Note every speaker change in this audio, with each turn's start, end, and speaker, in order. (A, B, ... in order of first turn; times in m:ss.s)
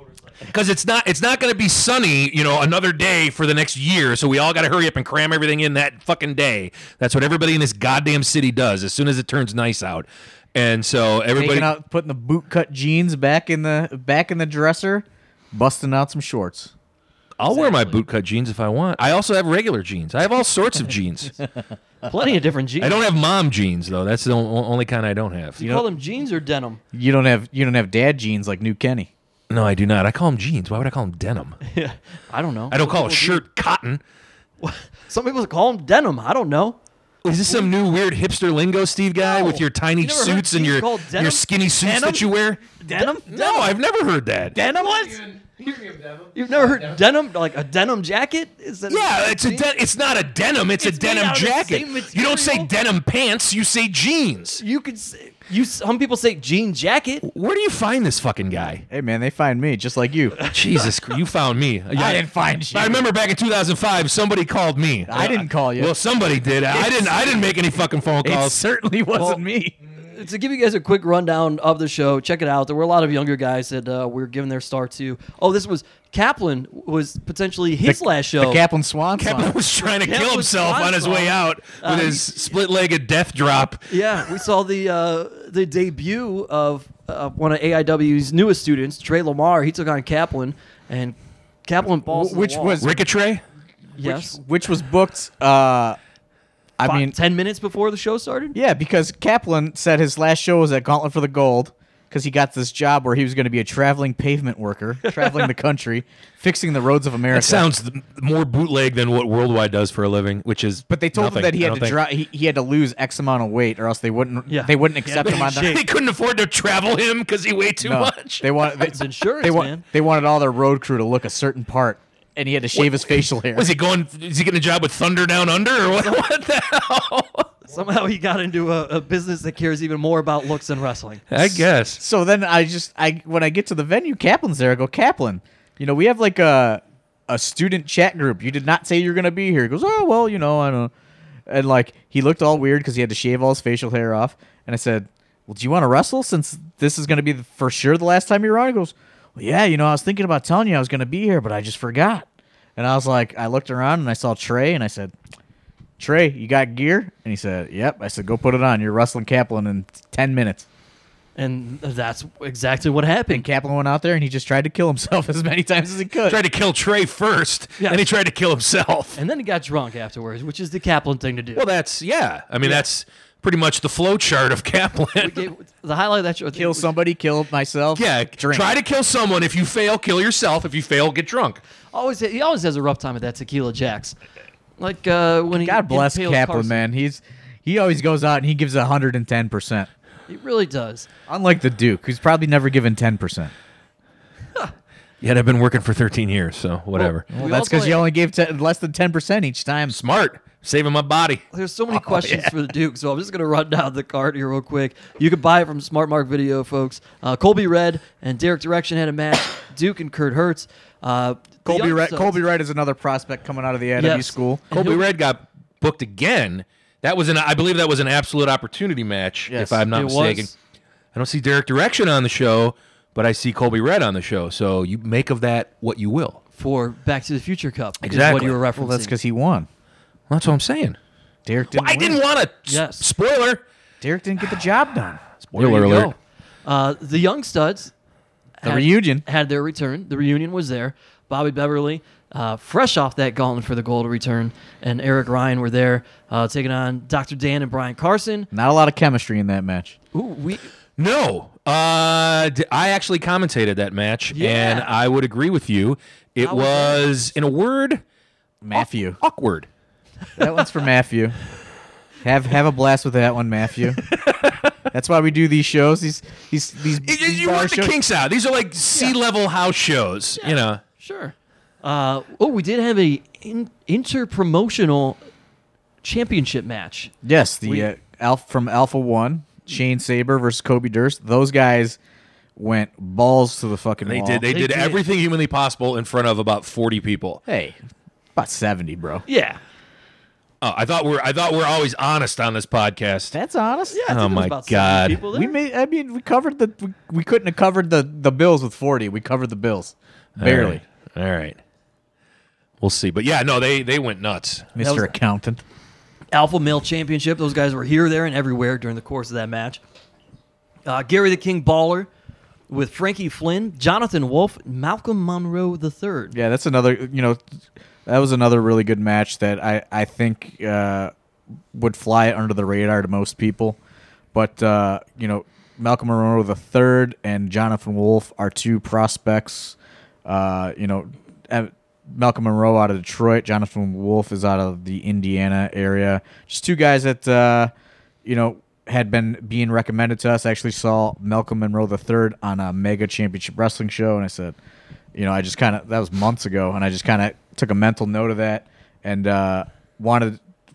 0:00.4-0:11.7 A
0:11.3-0:16.7 B
0:17.4-0:21.4 A
0:17.5-0:18.0 C
0:22.0-0:23.0 C
0:22.8-0:25.6 A
0:25.6-0:26.8 C
0:25.6-0:25.8 B
0:26.9-0:29.1 B
0:29.5-0:31.6 A
0:31.6-0:33.4 C
0:32.7-0:34.0 A
0:34.6-0:36.8 C
0:37.2-0:44.6 A
0:39.2-0:41.4 C
0:41.8-0:43.7 B
0:42.9-0:43.6 C
0:44.5-0:45.4 B
0:46.3-0:49.7 C
0:48.9-0:54.6 A
0:50.8-0:52.7 C
0:54.6-0:57.2 C
0:57.2-0:58.8 A
0:58.9-1:00.4 B
1:00.5-1:08.6 A
1:01.9-1:03.0 B
1:05.1-1:05.9 B
1:08.2-1:09.8 B
1:09.1-1:09.4 C
1:10.0-1:18.6 C
1:17.9-1:19.5 B
1:19.2-1:24.3 A
1:19.8-1:22.3 C
1:23.9-1:32.8 C
1:32.1-1:33.0 B
1:32.8-1:33.4 A
1:34.0-1:36.0 B
1:34.0-1:34.4 C
1:36.8-1:37.1 B
1:36.8-1:38.6 C
1:38.5-1:47.7 B
1:45.0-1:45.5 C
1:47.3-1:52.0 A
1:50.9-1:55.8 B
1:54.5-1:55.8 C
1:55.2-1:58.5 A
1:57.8-2:03.7 B
1:58.8-1:59.8 C
2:02.7-2:07.5 A
2:07.6-2:11.2 C
2:11.3-2:12.0 A
2:11.4-2:20.9 B
2:21.5-2:32.2 B
2:32.8-2:35.1 B
2:36.0-2:40.6 B
2:41.4-2:43.4 C
2:43.3-2:46.4 B
2:46.2-2:49.2 A
2:49.2-2:51.6 C
2:51.6-2:55.4 A
2:55.2-2:56.9 C
2:56.5-2:58.7 B
2:57.9-3:01.6 A
3:01.9-3:04.2 C
3:04.8-3:06.8 C
3:05.5-3:09.9 B
3:10.3-3:11.1 C
3:11.3-3:13.5 B
3:15.2-3:17.2 A
3:17.0-3:18.0 C
3:17.3-3:20.0 B
3:19.9-3:22.5 A
3:21.5-3:32.4 C
3:31.6-3:34.6 B
3:34.0-3:35.1 C
3:34.7-3:40.5 A
3:39.5-3:39.8 B
3:39.9-3:40.5 C
3:41.1-3:46.4 A
3:46.6-3:49.1 C
3:48.0-3:48.6 A
3:48.8-3:49.7 B
3:50.3-3:51.0 A
3:51.4-3:52.2 B
3:51.7-3:53.6 A
3:52.7-3:53.1 C
3:54.0-3:56.0 B
3:55.4-3:56.1 A
3:55.6-3:57.9 C
3:58.6-4:08.5 C
3:58.6-3:59.2 B
4:08.5-4:10.0 B
4:10.1-4:10.7 C
4:11.0-4:18.0 A
4:14.3-4:14.9 C
4:16.4-4:17.0 C
4:18.6-4:19.2 B
4:18.8-4:19.7 A
4:20.4-4:21.4 B
4:22.2-4:24.0 B
4:24.1-4:24.7 A
4:24.9-4:27.9 B
4:27.0-4:30.8 A
4:30.4-4:35.2 C
4:36.0-4:37.1 C
4:37.2-4:42.0 B
4:42.6-4:44.4 B
4:44.0-4:47.4 A
4:44.5-4:45.0 C
4:47.5-4:47.8 B
4:48.4-4:49.2 B
4:49.3-4:49.6 C
4:50.6-4:53.3 A
4:53.3-4:54.0 B
4:53.9-4:55.5 C
4:54.1-4:55.2 A
4:55.3-5:00.8 B
5:00.4-5:01.6 A
5:02.8-5:04.7 A
5:04.7-5:05.6 B
5:04.8-5:05.1 C
5:06.3-5:09.8 C
5:10.8-5:12.1 C
5:12.7-5:16.3 C
5:16.3-5:17.4 B
5:18.0-5:21.1 B
5:21.7-5:23.8 B
5:24.3-5:37.7 B
5:38.2-5:44.6 B
5:45.1-5:50.4 B